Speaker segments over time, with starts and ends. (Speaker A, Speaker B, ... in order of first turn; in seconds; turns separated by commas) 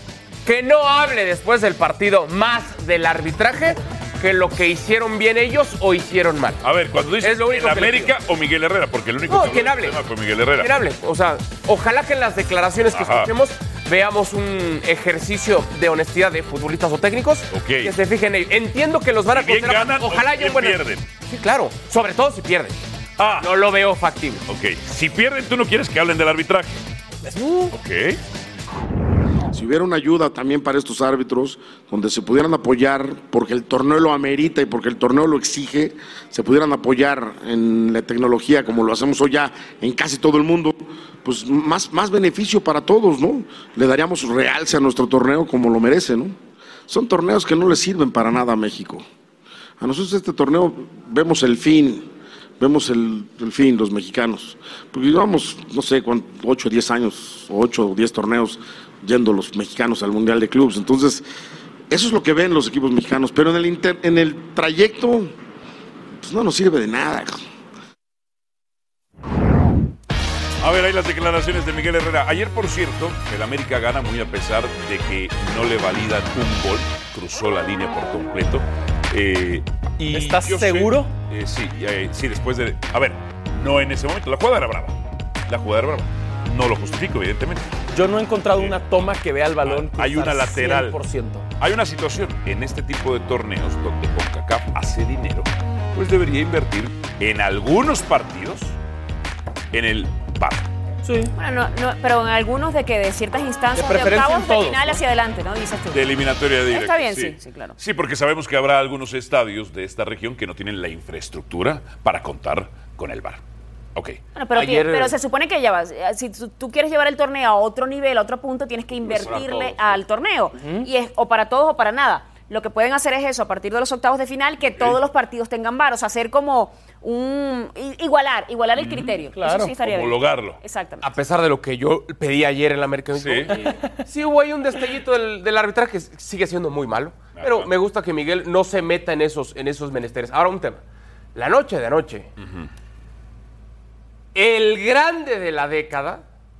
Speaker A: 0.5-6.6, Speaker B: 6.6-10.7, Speaker A: 7.2-8.1, Speaker A: 9.3-10.0, Speaker A: 10.6-22.8, Speaker B: 12.9-13.3, Speaker B: 17.5-17.9, Speaker B: 19.3-21.1, Speaker B: 23.2-23.5, Speaker A: 23.4-24.4, Speaker B: 24.5-26.8, Speaker C: 27.2-27.7, Speaker B: 27.7-28.2, Speaker D: 29.5-46.4, Speaker D: 46.9-49.0, Speaker D: 49.8-52.1, Speaker D: 52.6-61.2, Speaker D: 61.9-65.3, Speaker D: 66.2-67.4, Speaker B: 70.6-87.7, Speaker C: 80.1-81.1, Speaker C: 87.9-91.5, Speaker B: 88.5-89.0, Speaker B: 89.6-91.0, Speaker B: 91.6-98.8, Speaker B: 99.7-100.7, Speaker C: 101.0-101.3, Speaker E: 101.4-107.8, Speaker C: 103.8-105.0, Speaker B: 105.9-113.4, Speaker B: 114.0-114.2, Speaker E: 114.3-131.1, Speaker A: 114.5-115.1, Speaker B: 119.1-119.9, Speaker C: 120.6-120.9, Speaker B: 124.7-125.0, Speaker B: 128.8-129.2, Speaker C: 129.3-129.7, Speaker B: 129.8-130.6, Speaker A: 131.0-140.8, Speaker B: 133.2-133.6, Speaker B: 137.4-137.7, Speaker A: 141.3-142.3, Speaker B: 142.4-142.7, Speaker A: 144.3-146.2